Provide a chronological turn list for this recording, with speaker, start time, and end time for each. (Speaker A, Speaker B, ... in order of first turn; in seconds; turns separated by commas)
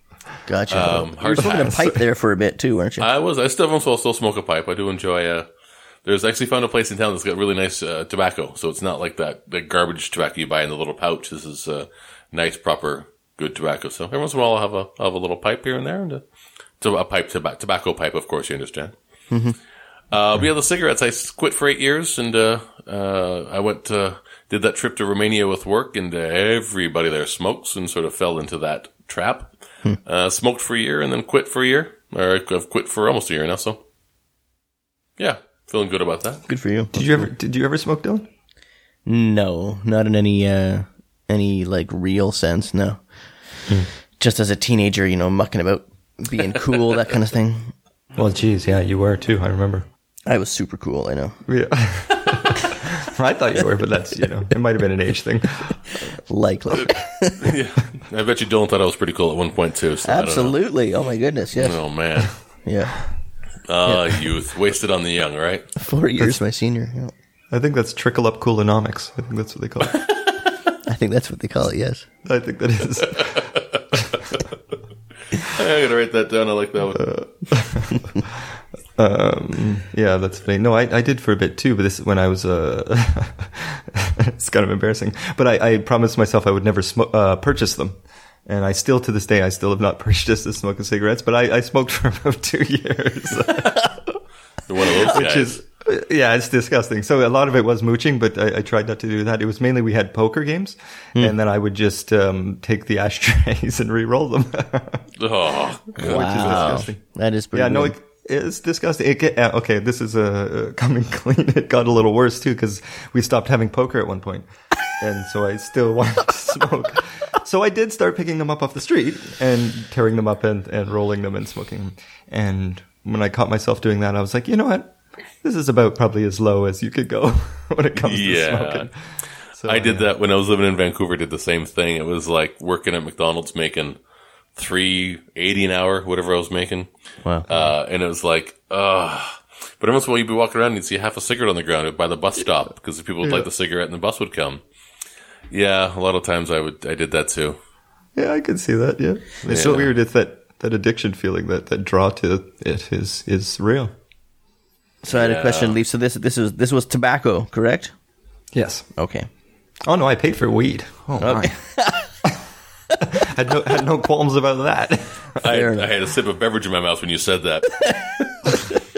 Speaker A: 0.5-3.1, Speaker B: 0.7-1.7, Speaker C: 1.2-2.0, Speaker B: 3.0-5.5, Speaker B: 6.0-16.2, Speaker B: 16.8-18.9, Speaker A: 19.3-19.6, Speaker B: 20.1-29.5, Speaker B: 30.1-33.8, Speaker B: 35.2-36.5, Speaker A: 36.5-37.3, Speaker C: 36.9-38.3, Speaker A: 39.1-43.0, Speaker A: 44.2-47.7, Speaker C: 48.2-49.9, Speaker A: 50.3-51.4, Speaker C: 51.5-55.8, Speaker A: 56.1-57.5, Speaker B: 57.4-60.6, Speaker A: 60.0-61.8, Speaker B: 61.6-62.3, Speaker A: 62.6-63.0, Speaker B: 63.7-65.7, Speaker A: 65.8-67.1, Speaker C: 67.5-70.0, Speaker A: 70.8-72.1, Speaker C: 72.2-74.2, Speaker B: 73.1-73.8, Speaker B: 75.3-77.1, Speaker C: 76.9-78.5, Speaker C: 79.0-94.2, Speaker B: 94.7-95.6, Speaker C: 94.9-105.1, Speaker B: 105.2-106.8, Speaker C: 106.0-107.0, Speaker A: 106.0-107.9, Speaker C: 107.5-128.9, Speaker B: 128.1-128.9, Speaker C: 129.6-130.1, Speaker B: 129.6-134.0, Speaker B: 134.6-136.9, Speaker B: 137.5-144.6, Speaker B: 145.5-147.6, Speaker C: 148.2-153.9, Speaker B: 149.5-149.9, Speaker A: 149.5-149.8, Speaker A: 155.0-157.9, Speaker B: 155.1-155.8, Speaker C: 158.5-158.9, Speaker A: 159.0-159.3, Speaker C: 159.8-161.6, Speaker A: 161.2-162.1, Speaker C: 162.9-165.4, Speaker B: 165.4-168.3, Speaker A: 165.4-165.9